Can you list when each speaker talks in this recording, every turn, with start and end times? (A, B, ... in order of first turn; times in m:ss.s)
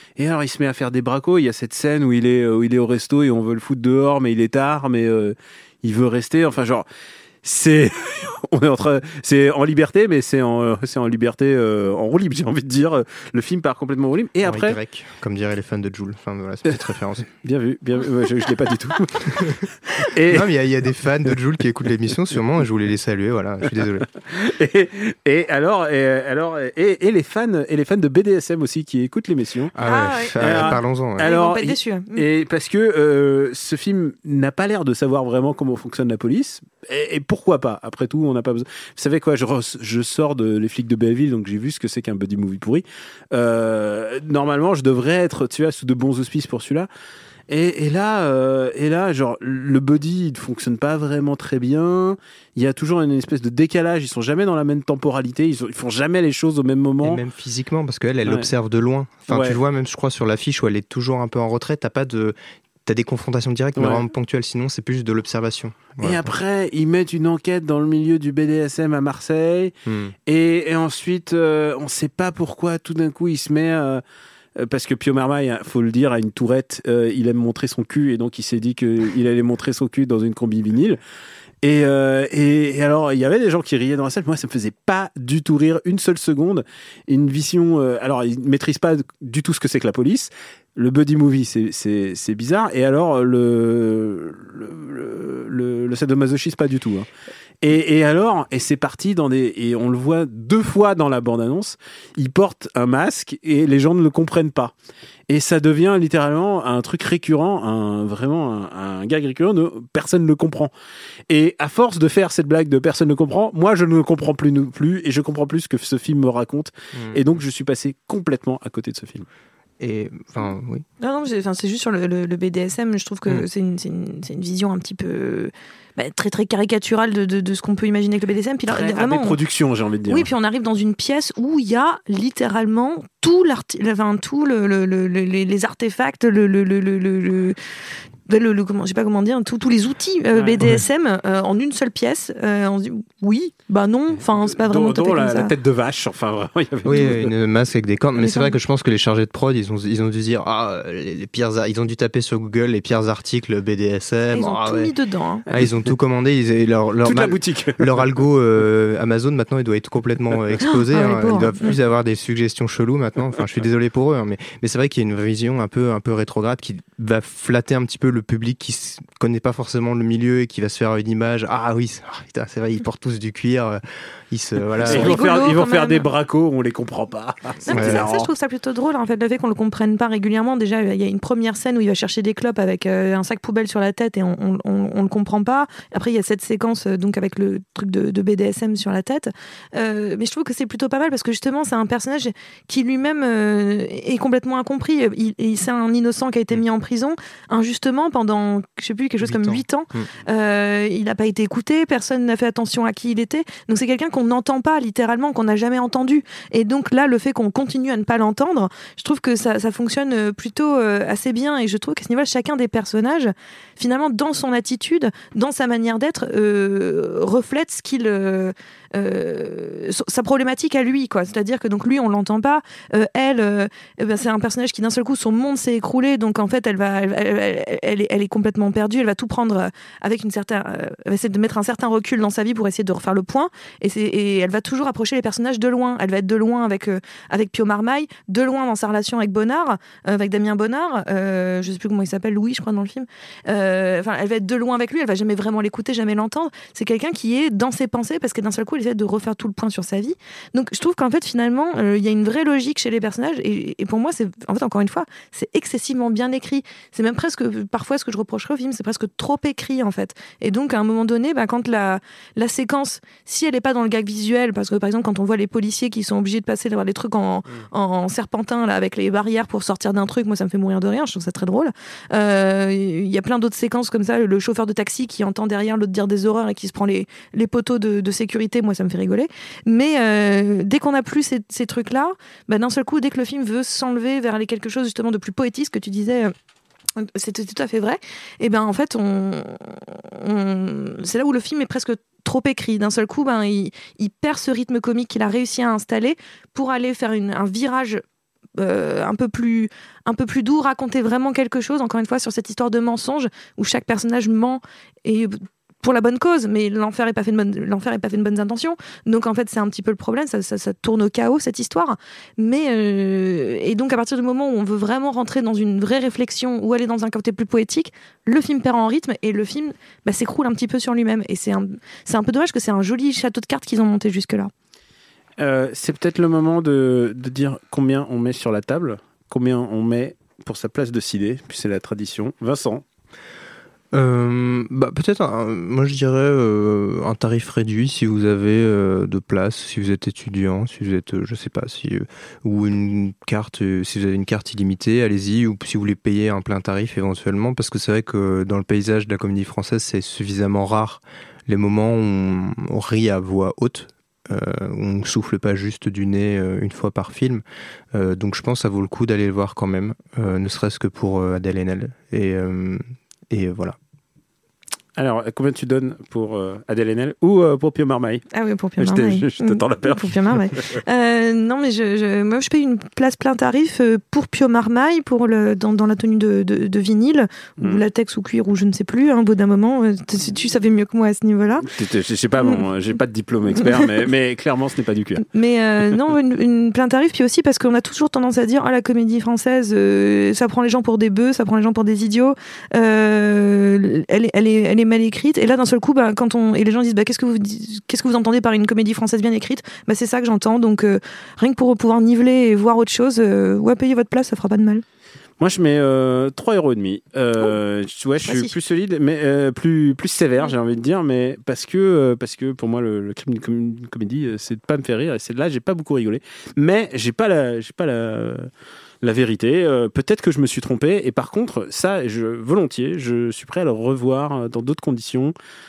0:00.2-0:06.8 A
0:07.4-0:14.8 A
0:14.4-0:17.3 B
0:17.4-0:20.5 A
0:20.2-0:24.1 B
0:24.3-0:29.8 A
0:29.8-0:31.3 B
0:29.8-0:32.2 C
0:30.4-0:46.9 A
0:47.5-0:57.2 A
0:57.0-1:02.4 B
0:59.3-0:59.6 A
1:02.9-1:06.3 B
1:03.8-1:04.0 A
1:06.0-1:09.7 A
1:09.9-1:10.1 B
1:10.3-1:14.0 A
1:14.6-1:21.0 A
1:21.6-1:37.1 A
1:37.6-1:44.7 A
1:45.3-1:50.7 A
1:51.3-1:59.2 A
1:56.9-1:57.2 B
1:59.8-2:00.8 B
2:01.0-2:09.4 C
2:08.7-2:10.3 A
2:10.1-2:17.6 C
2:18.3-2:25.5 C
2:20.3-2:20.6 A
2:24.1-2:27.3 A
2:26.8-2:34.9 B
2:28.2-2:28.5 C
2:34.3-2:35.4 C
2:35.5-2:55.2 B
2:35.5-2:35.9 A
2:37.0-2:38.1 A
2:40.6-2:41.7 C
2:54.8-2:56.1 C
2:54.8-2:58.3 A
2:57.6-4:46.3 C
2:57.7-2:58.1 B
3:19.2-3:20.1 B
4:47.0-4:58.0 C
4:58.6-5:24.5 C
5:25.4-5:32.8 A
5:33.9-6:03.8 B
6:05.0-6:08.2 A
6:08.3-6:21.6 C
6:08.8-6:10.6 A
6:17.6-6:17.8 A
6:21.6-6:25.2 A
6:22.4-6:22.6 C
6:23.5-6:23.9 C
6:25.3-6:44.8 C
6:45.4-6:58.5 A
6:48.2-6:48.5 C
6:59.0-7:05.3 A